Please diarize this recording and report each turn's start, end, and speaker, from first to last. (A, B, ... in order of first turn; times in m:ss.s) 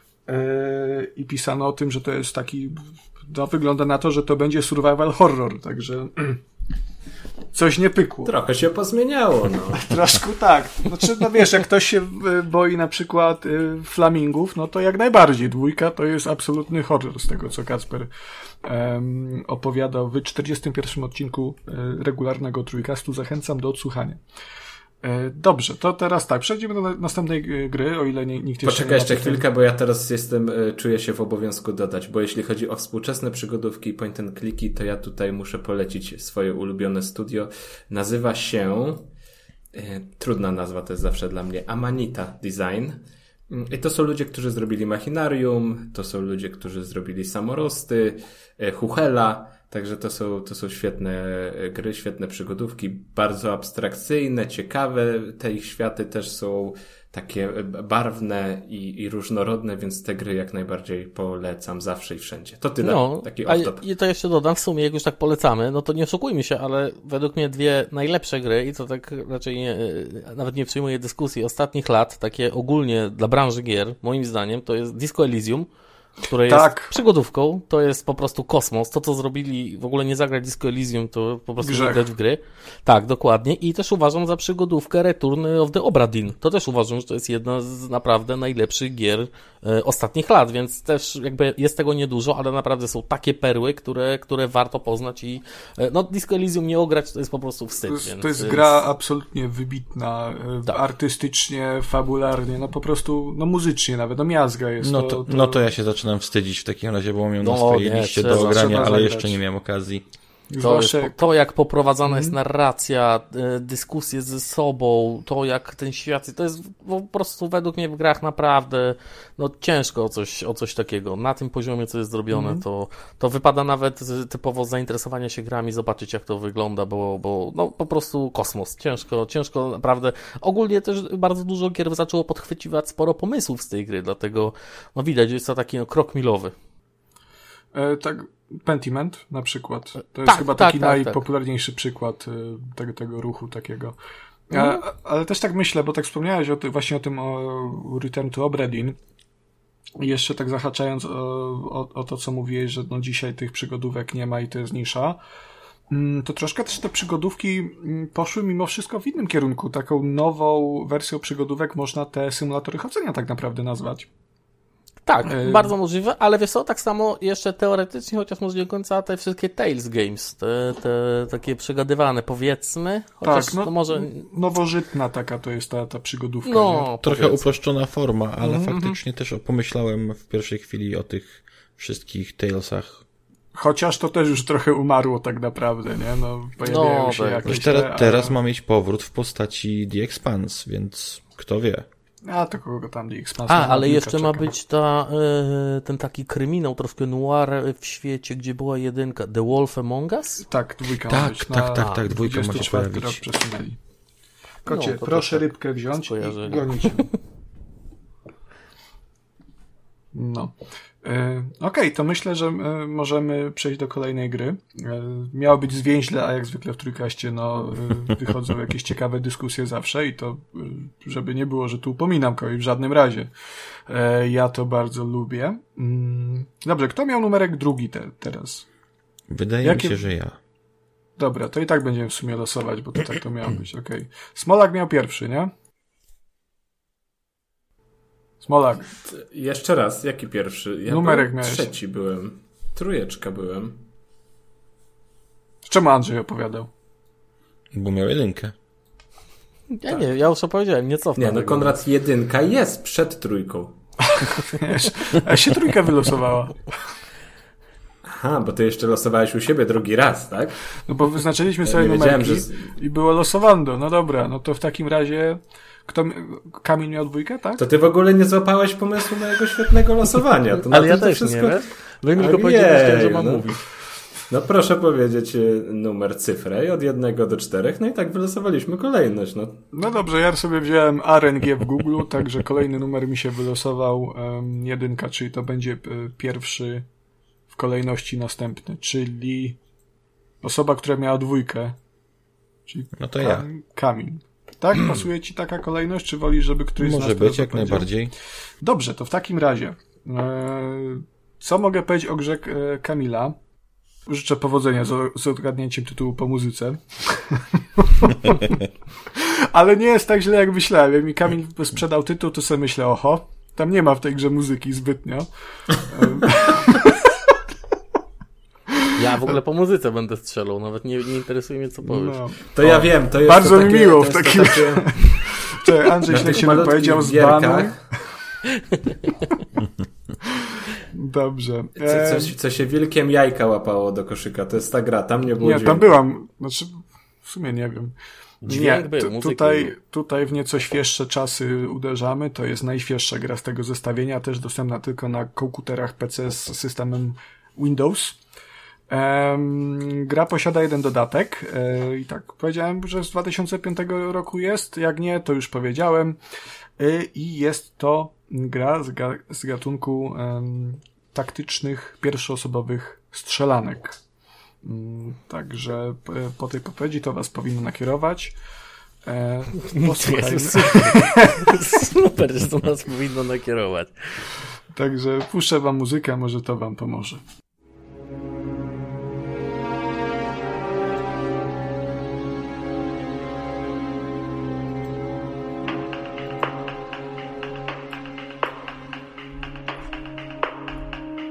0:00.3-0:06.4 A
0:07.5-0:08.3 A
0:08.2-0:10.0 B
0:09.7-0:18.1 A
0:18.6-0:24.2 A
0:25.0-0:29.4 A
0:28.6-0:39.1 B
0:39.7-1:03.8 B
1:02.8-1:15.7 C
1:16.2-1:38.7 C
1:16.5-1:16.9 A
1:21.6-1:22.1 A
1:37.9-1:45.7 A
1:44.8-1:50.0 D
1:47.4-1:48.8 C
1:48.3-1:49.4 A
1:50.5-1:51.2 A
1:50.6-2:16.5 C
1:52.0-1:52.4 A
2:02.3-2:02.6 A
2:17.7-2:24.0 A
2:20.2-2:21.2 C
2:24.5-2:29.0 A
2:24.5-2:24.8 C
2:30.0-2:35.2 A
2:35.9-2:44.1 A
2:45.0-2:54.2 C
2:45.3-2:45.7 A
2:53.2-2:56.9 A
2:56.4-2:57.4 C
2:57.0-3:03.0 D
2:58.4-2:59.0 C
3:03.5-3:08.4 A
3:06.6-3:07.6 C
3:07.4-3:11.9 D
3:12.2-3:14.5 A
3:13.5-3:20.4 C
3:20.4-3:23.8 A
3:21.1-3:23.2 D
3:24.6-3:27.1 A
3:24.7-3:27.1 C
3:30.1-3:43.3 A
3:43.9-3:48.7 A
3:49.3-3:50.4 D
3:49.6-3:50.0 A
3:51.2-3:55.5 A
3:58.4-3:58.9 A
3:59.0-4:03.8 B
4:00.8-4:01.7 A
4:05.6-4:06.7 A
4:07.7-4:08.5 D
4:09.8-4:11.8 C
4:11.2-4:14.4 B
4:14.2-4:16.7 A
4:18.0-4:20.7 B
4:20.9-4:27.6 A
4:21.6-4:22.7 B
4:27.6-4:33.6 B
4:30.7-4:33.6 C
4:34.3-4:39.6 B
4:39.7-4:46.8 A
4:47.5-4:49.6 A
4:50.4-4:51.8 A
4:52.7-4:57.9 A
4:53.0-4:53.5 D
4:56.8-4:58.1 D
4:58.6-5:03.4 A
5:04.1-5:08.6 A
5:09.1-5:17.2 A
5:18.7-5:19.0 A
5:19.0-5:22.2 C
5:21.8-5:28.2 A
5:22.5-5:27.8 B
5:28.7-5:29.3 C
5:30.2-5:32.4 A
5:31.8-5:35.9 B
5:35.4-5:48.2 A
5:38.4-5:39.7 C
5:48.9-5:56.2 A
5:56.8-6:04.0 A
6:04.6-6:08.4 A
6:09.0-6:11.8 A
6:09.6-6:14.3 C
6:14.7-6:17.2 A